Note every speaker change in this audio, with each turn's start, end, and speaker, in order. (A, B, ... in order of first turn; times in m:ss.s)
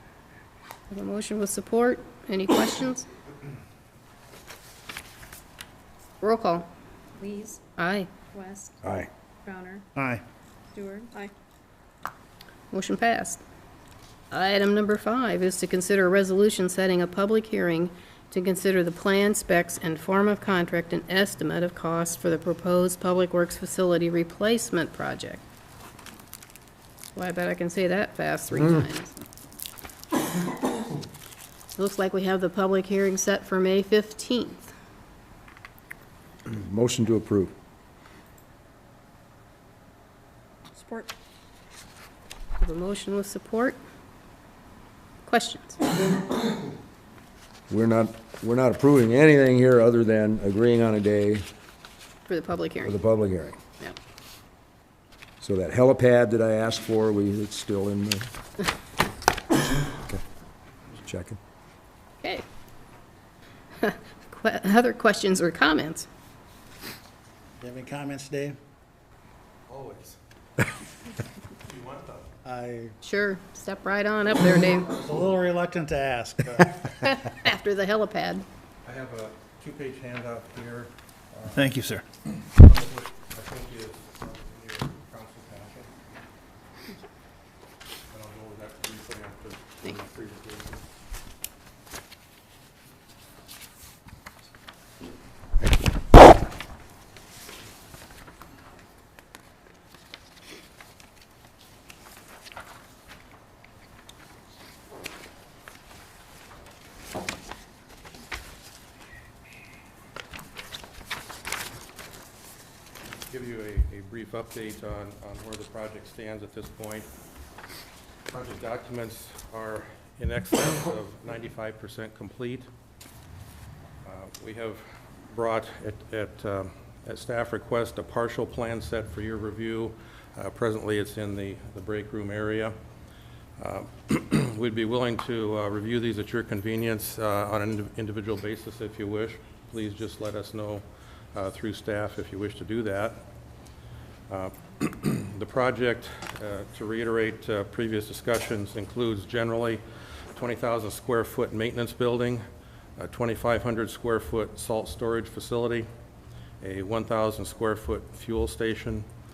0:00.9-0:03.0 A
0:06.2-0:06.7 A
0:07.2-0:07.6 B
0:07.8-0:08.1 A
0:08.3-0:08.9 B
0:09.4-0:09.9 B
0:10.7-0:11.3 B
0:12.7-0:13.4 A
0:14.3-0:25.4 A
0:27.1-0:29.2 A
0:28.6-0:28.8 C
0:31.7-0:34.7 A
0:36.4-0:37.5 C
0:40.7-0:41.1 B
0:42.6-0:43.8 A
0:45.2-0:45.8 A
0:47.7-0:51.4 C
0:52.3-0:53.0 A
0:52.8-0:53.6 C
0:55.4-0:58.3 C
1:00.9-1:01.4 C
1:03.8-1:06.1 A
1:07.6-1:08.6 D
1:09.7-1:10.2 E
1:11.6-1:12.2 E
1:12.4-1:13.0 D
1:13.0-1:15.0 A
1:15.0-1:16.9 D
1:16.9-1:18.4 A
1:18.8-1:21.7 E
1:21.5-1:22.0 D
1:22.4-1:25.9 E
1:28.1-1:30.8 E
1:53.3-1:57.1 E
1:58.3-2:02.7 E
2:04.0-2:12.7 E
2:13.6-2:20.8 E
2:21.3-2:23.2 E
2:24.3-2:29.8 E
2:30.3-2:32.4 E
2:33.0-2:35.8 E
2:36.6-2:39.0 E